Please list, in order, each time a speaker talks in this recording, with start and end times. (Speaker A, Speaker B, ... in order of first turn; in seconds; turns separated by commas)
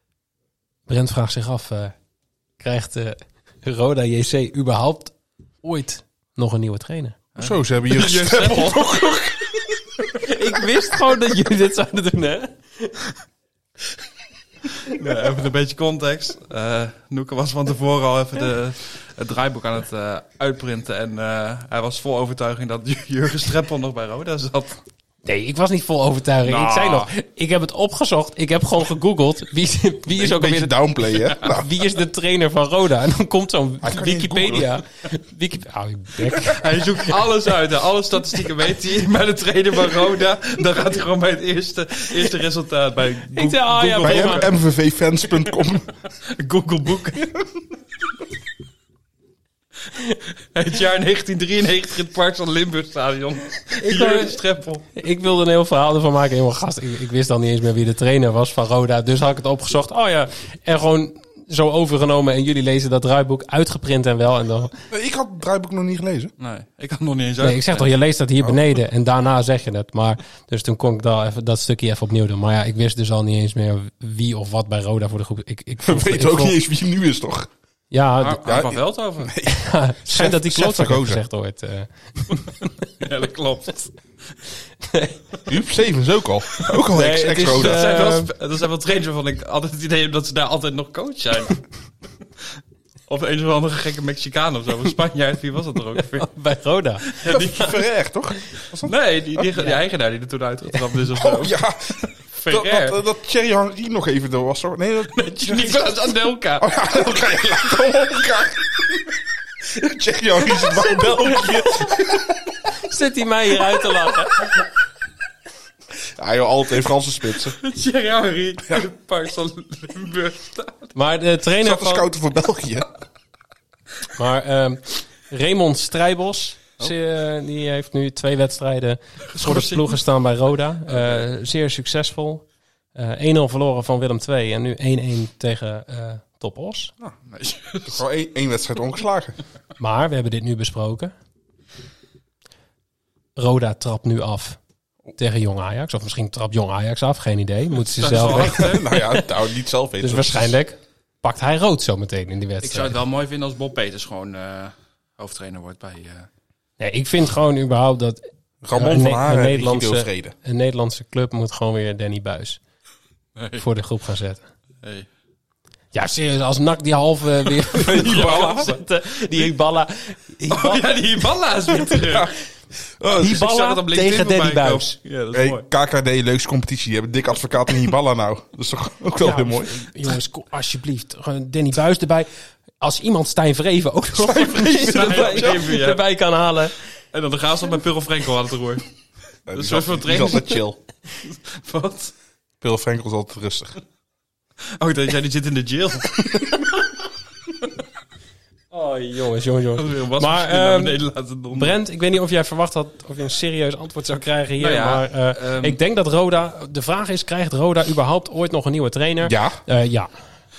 Speaker A: 0.9-1.9, Speaker A: 2.6-7.2, Speaker B: 7.3-9.1, Speaker C: 7.4-10.1, Speaker A: 10.2-13.0, Speaker B: 14.9-24.8, Speaker A: 25.2-30.8, Speaker B: 26.4-27.1, Speaker C: 30.2-31.7, Speaker A: 31.4-37.0, Speaker C: 33.8-34.7, Speaker B: 36.5-44.6, Speaker A: 43.3-44.5, Speaker C: 44.0-45.9, Speaker B: 46.2-47.3, Speaker B: 49.9-54.9, Speaker A: 53.8-54.4, Speaker A: 54.9-64.7, Speaker C: 64.9-66.3, Speaker B: 66.4-68.0, Speaker A: 67.4-76.6, Speaker C: 75.8-77.5, Speaker A: 77.9-78.4, Speaker B: 78.2-79.3, Speaker C: 78.4-81.2, Speaker A: 79.5-82.6, Speaker B: 83.0-84.0, Speaker A: 84.8-85.2, Speaker C: 85.5-87.8, Speaker A: 86.9-88.3, Speaker B: 87.4-91.6, Speaker B: 93.1-96.3, Speaker A: 96.1-97.4, Speaker B: 97.0-97.7, Speaker C: 97.2-99.5, Speaker B: 98.8-103.0, Speaker C: 101.2-112.3, Speaker B: 105.1-106.9, Speaker A: 111.2-111.8, Speaker A: 112.7-114.6, Speaker C: 116.0-117.6, Speaker B: 117.6-120.9, Speaker A: 120.9-122.1, Speaker C: 121.6-122.9, Speaker A: 124.1-136.9, Speaker B: 129.3-130.0, Speaker B: 130.9-131.2, Speaker B: 137.3-138.0, Speaker C: 137.8-139.4, Speaker A: 139.8-141.1, Speaker A: 143.3-144.6, Speaker A: 145.2-149.2, Speaker B: 147.9-148.8, Speaker C: 148.3-150.6, Speaker A: 150.0-153.0, Speaker B: 152.6-156.3, Speaker A: 156.8-162.6, Speaker C: 158.6-160.3, Speaker B: 163.3-163.6, Speaker A: 163.6-164.4, Speaker B: 164.8-165.1, Speaker A: 165.9-171.0, Speaker C: 167.8-168.7, Speaker B: 167.8-168.8, Speaker B: 170.5-172.3, Speaker C: 171.9-172.3, Speaker C: 173.0-173.3, Speaker A: 173.2-175.0, Speaker B: 173.2-175.6, Speaker C: 175.3-179.9, Speaker A: 179.2-186.7, Speaker C: 184.1-185.7, Speaker B: 184.7-186.0, Speaker B: 187.1-188.8, Speaker C: 189.5-190.8, Speaker B: 189.5-190.6, Speaker B: 191.2-192.1, Speaker C: 192.6-193.7, Speaker B: 194.8-196.7, Speaker A: 198.7-201.0, Speaker B: 199.8-201.8, Speaker A: 201.5-210.1, Speaker B: 204.6-205.8, Speaker C: 209.2-209.6